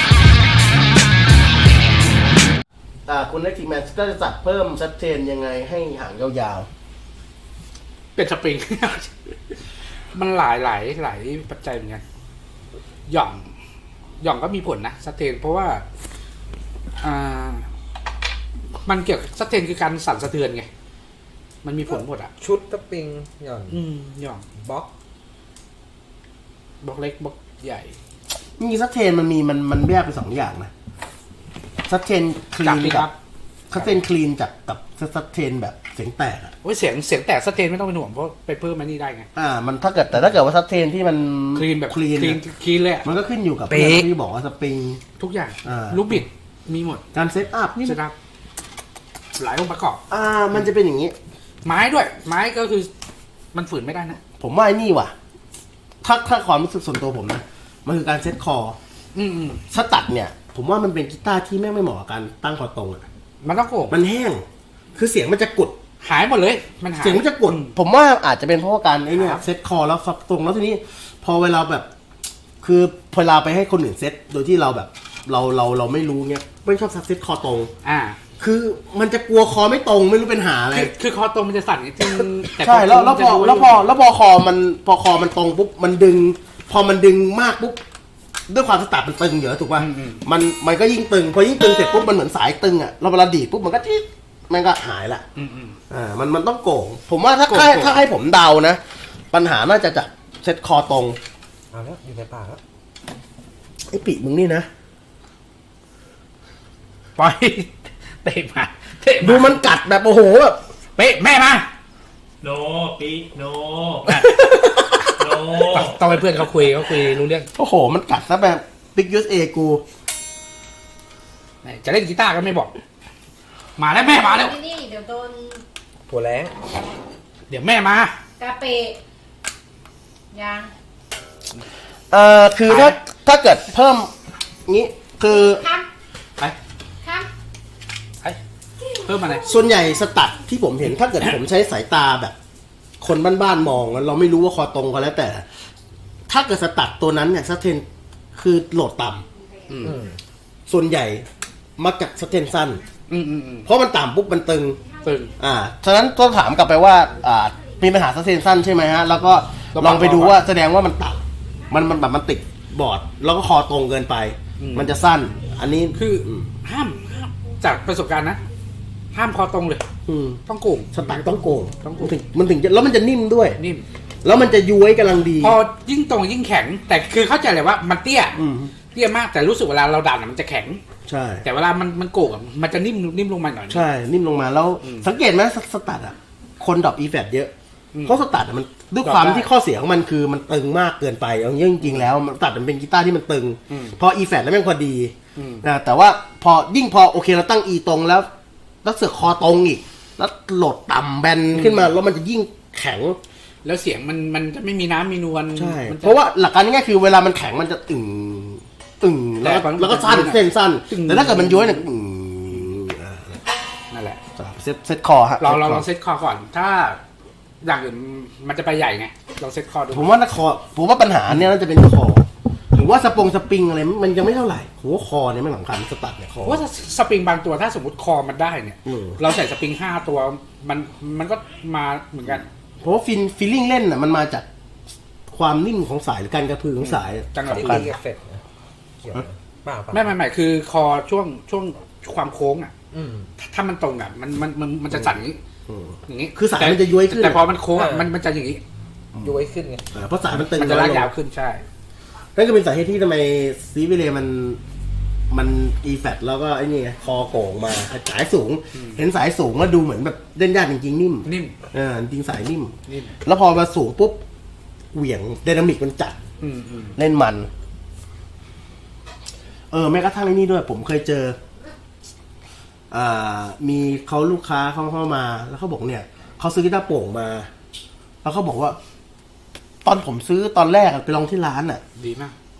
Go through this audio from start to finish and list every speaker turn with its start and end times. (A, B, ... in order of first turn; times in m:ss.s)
0:03.0-0:06.7 A
0:08.2-0:09.2 B
0:10.1-0:12.0 B
0:13.1-0:13.5 B
0:14.2-0:15.8 B
0:17.0-0:17.7 B
0:18.8-0:20.7 B
0:21.6-0:22.3 B
0:21.9-0:23.8 C
0:23.7-0:24.4 B
0:24.5-0:24.9 C
0:26.8-0:27.9 B
0:28.6-0:30.7 A
0:31.9-0:33.1 A
0:32.6-0:33.1 B
0:33.7-0:36.5 A
0:36.6-0:39.3 B
0:39.3-0:42.4 A
0:41.5-0:43.1 B
0:43.0-0:45.0 A
0:43.7-0:44.1 C
0:45.2-0:47.0 B
0:45.6-0:46.2 A
0:47.1-0:48.0 A
0:47.8-0:48.1 B
0:49.4-0:50.0 B
0:50.1-0:51.1 A
0:51.6-0:52.9 B
0:53.5-0:54.2 B
0:54.4-0:55.1 A
0:56.0-0:58.8 A
0:59.1-0:59.6 B
0:59.7-1:03.0 A
1:03.4-1:04.0 B
1:03.9-1:05.8 A
1:06.0-1:07.7 B
1:07.0-1:11.9 A
1:09.1-1:09.4 B
1:12.6-1:17.7 A
1:17.8-1:18.2 B
1:18.4-1:20.9 A
1:20.7-1:23.8 B
1:22.6-1:27.8 A
1:28.5-1:35.2 A
1:29.8-1:30.2 B
1:35.4-1:35.8 B
1:35.9-1:38.8 A
1:37.5-1:38.0 B
1:39.3-1:41.2 A
1:41.7-1:42.6 C
1:43.9-1:44.7 A
1:47.2-1:49.6 B
1:49.2-1:50.6 A
1:51.0-1:51.7 B
1:52.4-1:54.2 D
1:54.0-1:54.4 B
1:54.1-1:55.0 A
1:55.2-1:56.1 D
1:55.7-1:57.5 B
1:57.6-1:59.8 A
2:01.6-2:02.7 B
2:03.8-2:04.6 B
2:04.4-2:05.6 E
2:06.1-2:06.6 C
2:07.5-2:08.2 B
2:08.4-2:09.0 E
2:10.3-2:10.7 E
2:12.1-2:14.1 A
2:12.7-2:13.0 B
2:14.6-2:15.7 A
2:15.4-2:15.9 E
2:17.0-2:17.3 E
2:19.0-2:19.4 B
2:19.4-2:22.4 A
2:23.0-2:25.4 A
2:26.3-2:29.2 A
2:29.7-2:30.0 B
2:29.8-2:30.2 C
2:30.7-2:31.2 A
2:31.8-2:32.8 A
2:33.1-2:33.7 B
2:33.6-2:34.8 A
2:35.0-2:35.3 B
2:35.4-2:46.5 A
2:39.7-2:40.4 B
2:44.6-2:44.9 B
2:45.9-2:48.4 B
2:49.1-2:49.8 B
2:50.0-2:50.4 A
2:50.4-2:51.3 B
2:50.9-2:53.6 A
2:51.8-2:52.2 B
2:53.6-2:53.8 B
2:54.2-2:55.6 A
2:55.4-3:00.8 B
2:58.4-2:58.7 A
3:01.0-3:01.4 A
3:01.4-3:03.8 B
3:03.7-3:07.5 A
3:04.8-3:05.1 B
3:07.9-3:08.2 B
3:08.0-3:18.3 A
3:09.0-3:09.5 B
3:11.8-3:12.1 B
3:13.7-3:14.0 B
3:15.4-3:15.6 B
3:18.8-3:23.2 A
3:21.5-3:21.9 B
3:23.6-3:26.2 B
3:25.5-3:33.4 A
3:29.4-3:31.8 B
3:33.9-3:34.2 B
3:34.4-3:35.9 A
3:35.4-3:37.0 B
3:37.6-3:40.1 B
3:39.9-3:46.6 A
3:46.4-3:52.5 B
3:48.8-3:49.2 A
3:52.8-3:54.4 A
3:55.3-3:57.9 A
3:56.8-3:57.9 B
3:57.4-3:58.4 C
3:59.0-4:00.1 C
3:59.9-4:02.7 B
4:02.9-4:03.3 C
4:03.4-4:05.4 B
4:05.7-4:07.5 A
4:06.1-4:08.6 B
4:07.7-4:08.1 C
4:09.1-4:09.4 A
4:09.2-4:09.9 C
4:09.9-4:11.1 A
4:10.4-4:11.6 B
4:12.3-4:14.6 A
4:15.3-4:24.2 A
4:18.7-4:19.0 B
4:21.2-4:21.6 B
4:22.9-4:23.2 B
4:24.9-4:26.2 A
4:26.4-4:27.0 B
4:27.0-4:27.5 A
4:29.7-4:31.4 A
4:32.9-4:37.5 A
4:38.2-4:38.8 A
4:39.8-4:41.8 A
4:42.0-4:42.4 B